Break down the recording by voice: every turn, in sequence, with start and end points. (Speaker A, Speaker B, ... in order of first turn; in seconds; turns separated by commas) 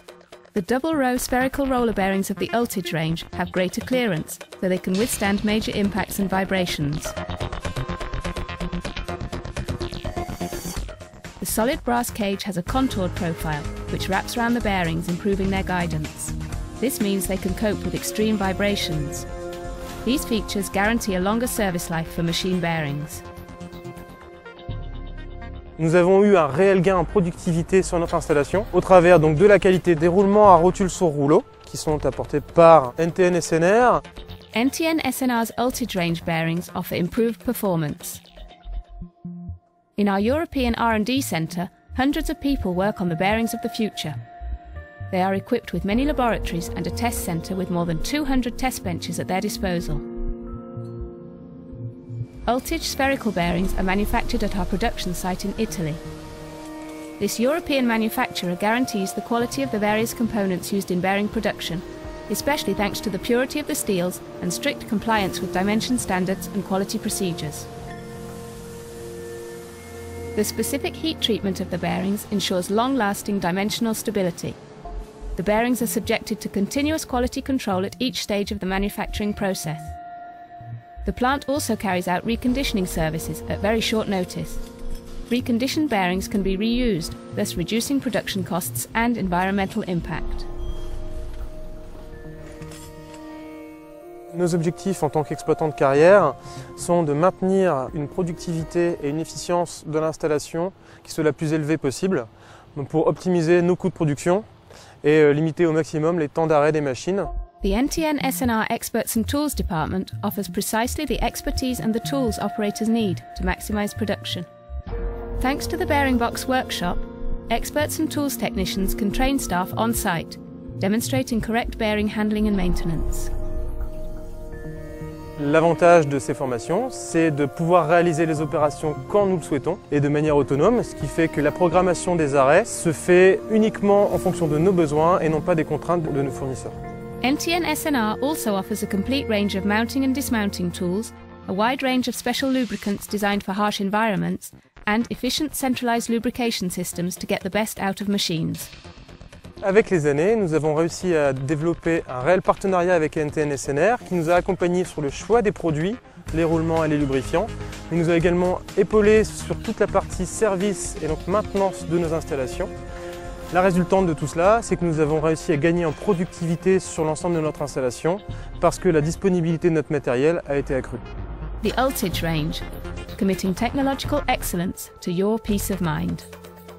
Speaker A: 0.5-7.1, Speaker A: 11.4-19.3, Speaker A: 20.0-23.2, Speaker B: 25.8-34.0, Speaker A: 34.5-38.2, Speaker A: 40.0-44.2, Speaker A: 45.1-50.0, Speaker A: 52.5-56.0, Speaker A: 57.2-67.7, Speaker A: 70.3-74.6, Speaker A: 75.3-79.9, Speaker A: 81.0-84.6, Speaker A: 85.3-90.5, Speaker B: 94.3-104.4, Speaker B: 105.0-107.3, Speaker A: 107.6-114.5, Speaker A: 115.4-123.3, Speaker B: 125.4-136.8, Speaker A: 137.2-148.7, Speaker B: 149.6-162.7, Speaker B: 163.5-171.0, Speaker A: 171.6-172.6, Speaker A: 173.2-176.3